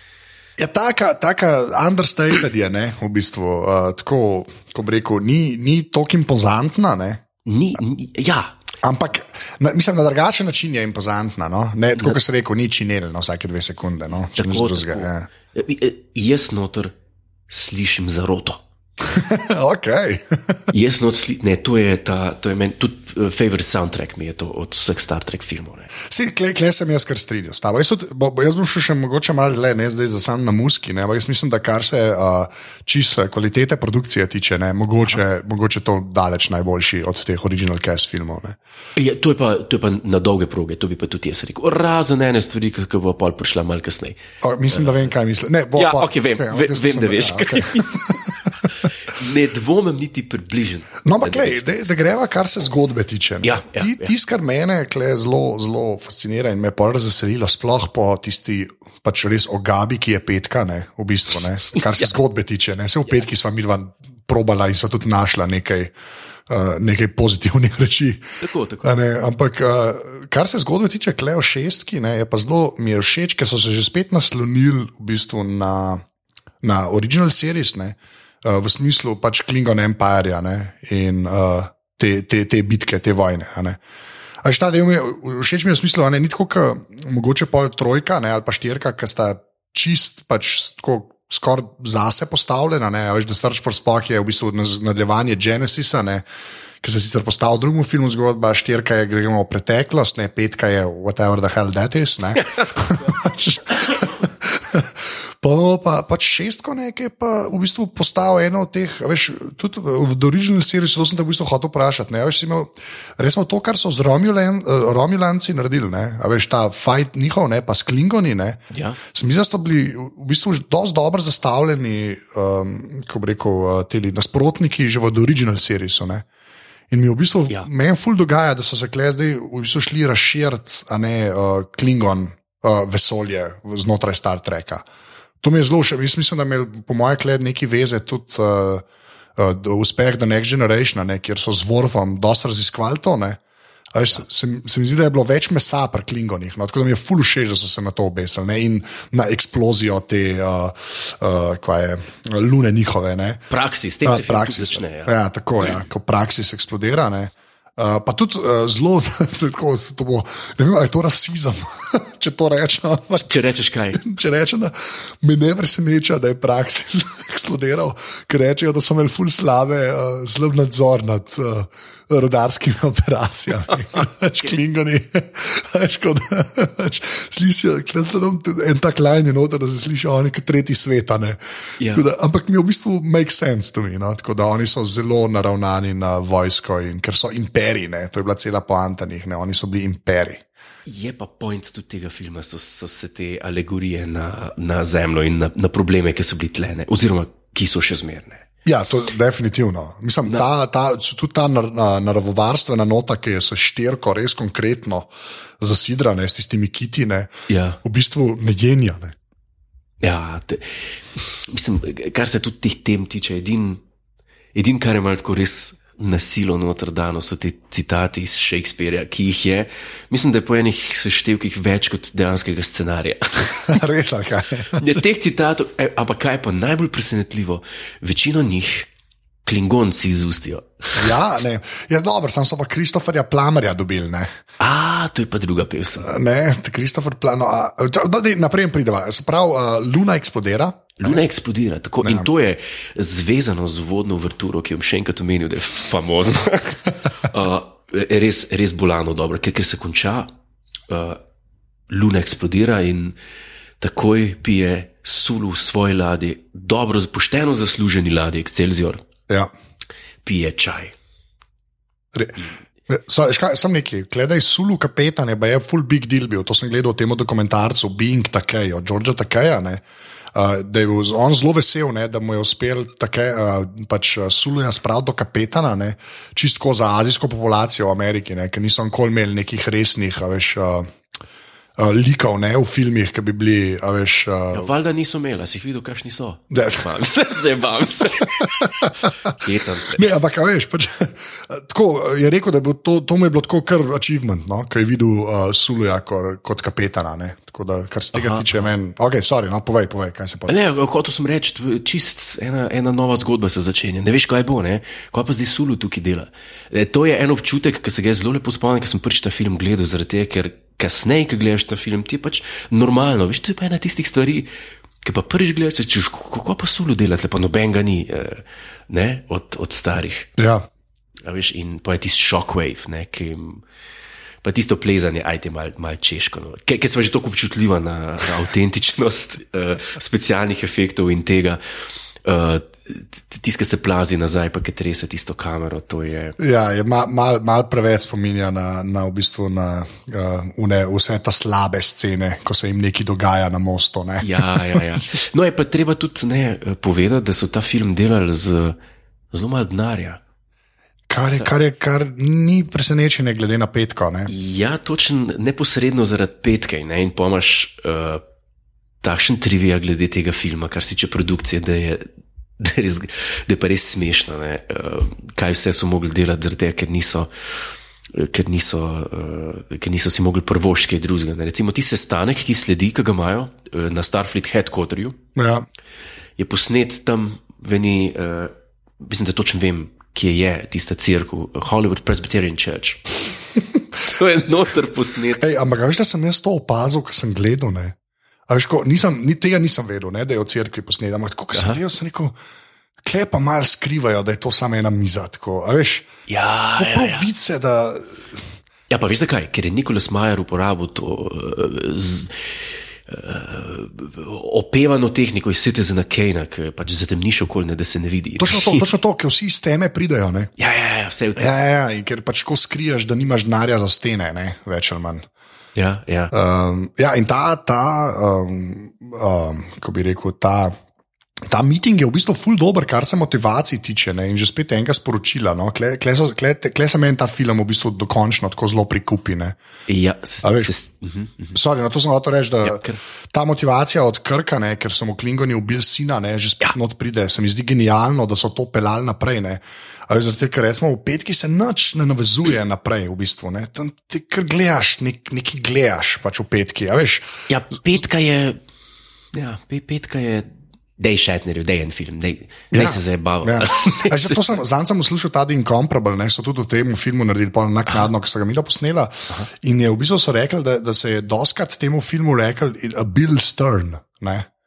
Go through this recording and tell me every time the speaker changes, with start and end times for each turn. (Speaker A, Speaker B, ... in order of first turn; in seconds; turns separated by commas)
Speaker A: 0.6-7.2, Speaker B: 7.5-8.6, Speaker A: 8.8-15.3, Speaker B: 14.3-16.9, Speaker B: 17.5-18.6, Speaker A: 19.0-20.6, Speaker B: 20.7-25.9, Speaker A: 26.1-38.6, Speaker B: 39.0-44.2, Speaker A: 44.4-48.3, Speaker B: 44.7-45.0, Speaker B: 45.8-51.7, Speaker A: 51.0-65.9, Speaker B: 53.4-54.1, Speaker A: 66.5-68.2, Speaker B: 68.4-69.0, Speaker A: 68.8-76.0, Speaker A: 76.6-83.8, Speaker A: 84.4-96.2, Speaker A: 96.8-126.3, Speaker B: 118.7-119.0, Speaker A: 126.9-134.8, Speaker A: 135.4-138.8, Speaker A: 139.4-143.4, Speaker A: 143.9-153.4, Speaker B: 153.5-155.1, Speaker A: 154.1-163.3, Speaker B: 163.2-164.0, Speaker A: 164.0-190.4, Speaker B: 181.8-182.1, Speaker B: 190.9-198.5, Speaker A: 198.7-207.3, Speaker B: 207.5-207.8, Speaker A: 207.8-209.2, Speaker B: 210.0-213.8, Speaker B: 214.5-223.8, Speaker A: 223.7-225.0, Speaker B: 224.7-228.9, Speaker B: 229.4-231.1, Speaker A: 231.0-234.4, Speaker B: 234.6-236.1, Speaker A: 236.0-241.2, Speaker B: 241.0-250.3, Speaker A: 242.0-242.3, Speaker B: 250.9-251.2, Speaker B: 251.9-253.2, Speaker B: 253.8-259.0, Speaker B: 260.2-260.9, Speaker A: 262.1-280.9, Speaker A: 281.8-284.7, Speaker B: 284.5-290.1, Speaker A: 286.5-286.9, Speaker A: 288.4-288.9, Speaker A: 290.0-300.6, Speaker B: 298.1-298.7, Speaker B: 300.5-314.5, Speaker B: 315.0-320.3, Speaker A: 320.4-320.7, Speaker B: 321.2-323.6, Speaker B: 324.4-331.6, Speaker B: 332.2-336.4, Speaker A: 336.4-344.9, Speaker B: 344.2-348.8, Speaker B: 349.3-350.2, Speaker A: 351.1-354.3, Speaker B: 354.3-358.2, Speaker B: 359.0-362.1, Speaker B: 362.6-375.2, Speaker A: 375.4-375.7, Speaker B: 376.4-383.2, Speaker B: 384.0-385.5, Speaker A: 385.4-388.0, Speaker A: 388.5-392.3, Speaker A: 393.0-396.1, Speaker B: 396.3-397.3, Speaker A: 396.8-398.4, Speaker B: 398.9-408.9, Speaker A: 408.4-410.5, Speaker B: 410.6-411.5, Speaker A: 411.4-415.3, Speaker B: 415.8-416.3, Speaker A: 416.3-420.8, Speaker A: 421.5-429.6, Speaker B: 429.9-431.6, Speaker A: 430.4-430.7, Speaker A: 431.6-447.3, Speaker B: 432.6-433.0, Speaker B: 447.5-448.6, Speaker B: 449.3-454.6, Speaker A: 452.7-464.5